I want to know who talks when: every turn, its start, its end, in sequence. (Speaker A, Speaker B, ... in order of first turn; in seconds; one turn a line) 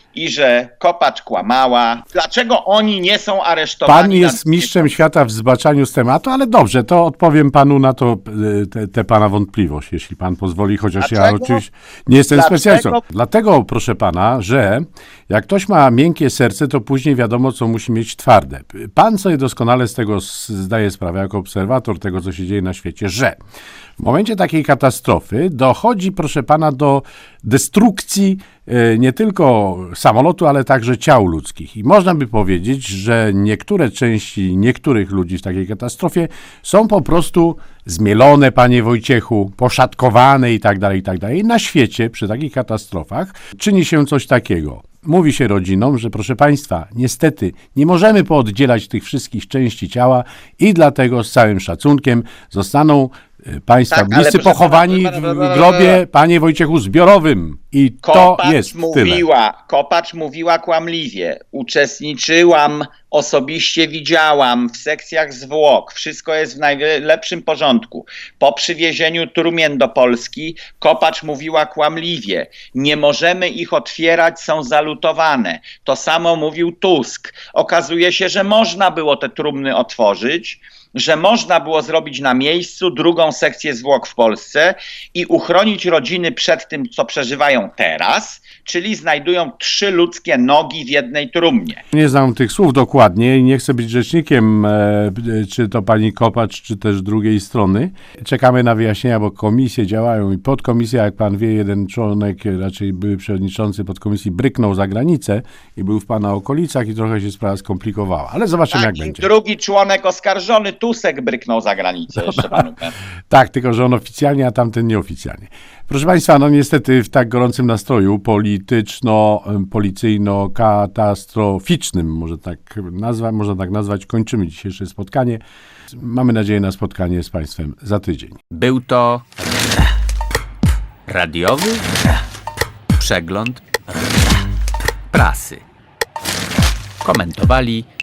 Speaker A: 0.1-5.0
Speaker B: 3.9-23.4
Speaker A: 11.0-11.6
Speaker A: 12.3-13.0
Speaker B: 24.0-59.2
Speaker A: 53.9-56.0
Speaker A: 58.0-91.8
Speaker B: 91.9-109.2
Speaker A: 108.7-112.9
Speaker B: 112.2-112.6
Speaker B: 113.3-125.4
Speaker B: 125.9-128.4
Speaker C: 128.5-129.2
Speaker C: 131.1-131.8
Speaker C: 133.0-133.6
Speaker C: 135.1-135.6
Speaker C: 137.0-137.9